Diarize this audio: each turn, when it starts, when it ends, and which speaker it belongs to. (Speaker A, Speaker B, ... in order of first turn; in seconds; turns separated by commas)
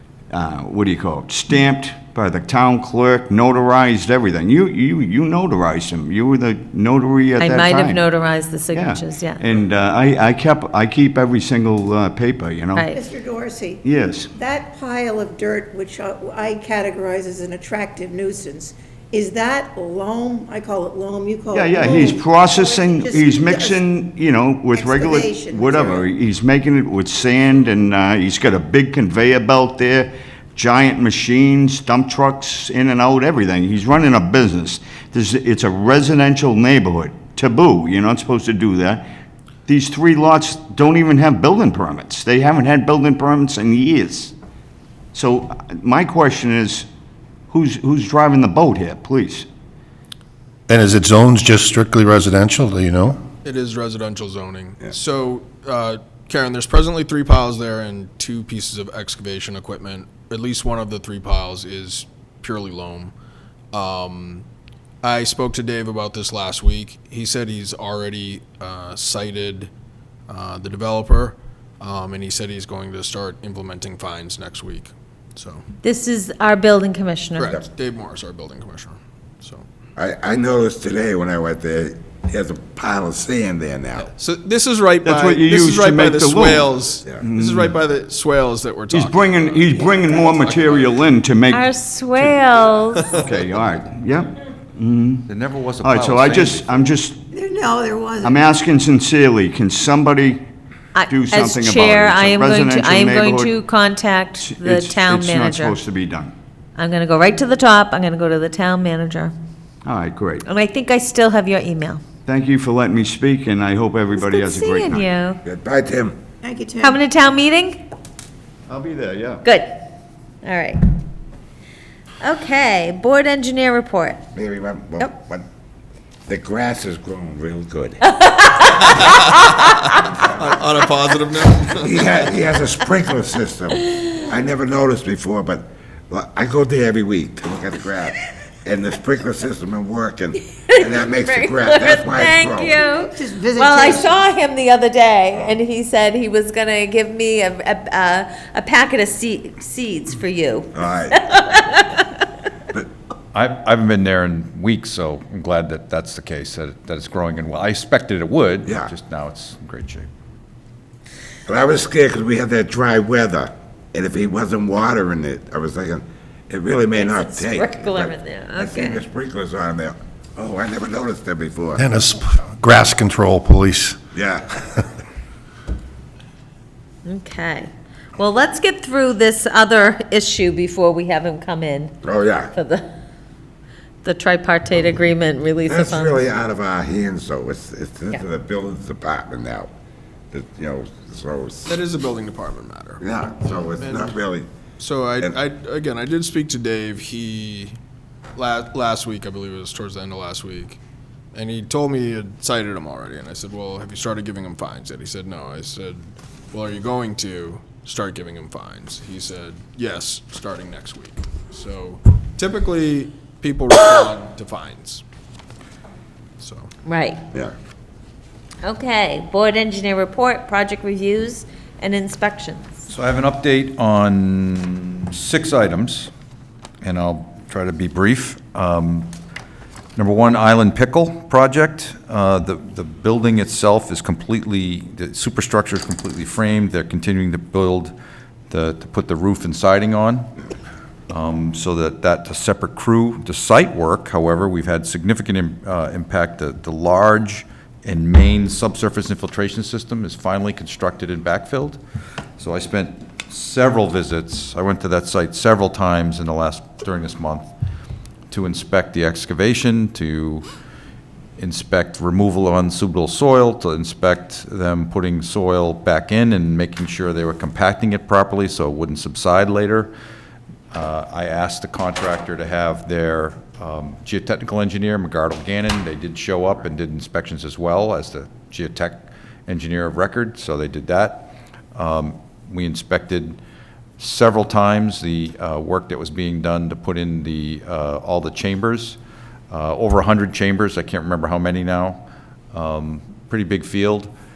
Speaker A: 0.3-8.0, Speaker B: 7.4-9.3, Speaker A: 8.7-12.9, Speaker C: 12.9-13.8, Speaker A: 13.8-14.3, Speaker C: 14.3-23.8, Speaker A: 21.5-39.1, Speaker C: 24.7-26.1, Speaker A: 39.7-44.3, Speaker A: 45.1-46.9, Speaker A: 47.5-49.5, Speaker D: 50.7-53.2, Speaker E: 53.4-63.1, Speaker E: 63.7-64.5, Speaker E: 65.0-69.7, Speaker E: 70.3-75.6, Speaker B: 75.8-77.4, Speaker E: 77.4-79.7, Speaker F: 80.0-84.1, Speaker E: 84.0-89.7, Speaker A: 85.0-86.7, Speaker A: 87.2-87.7, Speaker A: 88.9-95.3, Speaker B: 91.5-93.0, Speaker G: 95.3-96.9, Speaker A: 95.8-97.2, Speaker C: 97.3-98.5, Speaker A: 98.2-100.4, Speaker B: 100.9-105.8, Speaker A: 101.1-103.5, Speaker A: 104.4-106.3, Speaker B: 106.8-109.3, Speaker A: 109.8-110.4, Speaker B: 110.5-112.0, Speaker A: 112.2-115.1, Speaker B: 114.4-115.4, Speaker F: 115.4-116.2, Speaker C: 116.4-117.0, Speaker B: 117.0-117.8, Speaker A: 118.7-119.4, Speaker B: 119.4-119.8, Speaker B: 120.4-120.8, Speaker B: 122.2-124.2, Speaker F: 124.3-125.4, Speaker F: 126.3-128.0, Speaker B: 128.2-128.9, Speaker E: 128.8-132.3, Speaker F: 131.8-142.8, Speaker B: 140.7-150.7, Speaker C: 143.0-144.2, Speaker F: 150.7-151.3, Speaker B: 151.4-152.0, Speaker G: 153.3-160.1, Speaker F: 158.7-158.9, Speaker F: 161.5-171.8, Speaker B: 166.9-169.0, Speaker D: 171.8-174.0, Speaker F: 174.1-174.7, Speaker B: 177.1-181.9, Speaker F: 182.0-182.5, Speaker B: 182.6-182.9, Speaker B: 184.0-186.2, Speaker F: 185.7-189.7, Speaker F: 190.3-191.8, Speaker E: 191.7-194.2, Speaker F: 193.0-194.5, Speaker E: 194.8-197.8, Speaker E: 198.3-200.8, Speaker E: 201.3-215.0, Speaker E: 216.4-216.7, Speaker B: 216.9-217.2, Speaker B: 218.6-222.9, Speaker G: 222.9-226.1, Speaker G: 226.8-229.1, Speaker G: 230.0-237.9, Speaker G: 238.5-240.3, Speaker G: 241.1-251.8, Speaker G: 252.4-257.5, Speaker G: 258.3-260.5, Speaker G: 261.4-269.9, Speaker G: 270.7-283.4, Speaker G: 284.0-289.0, Speaker G: 289.5-294.1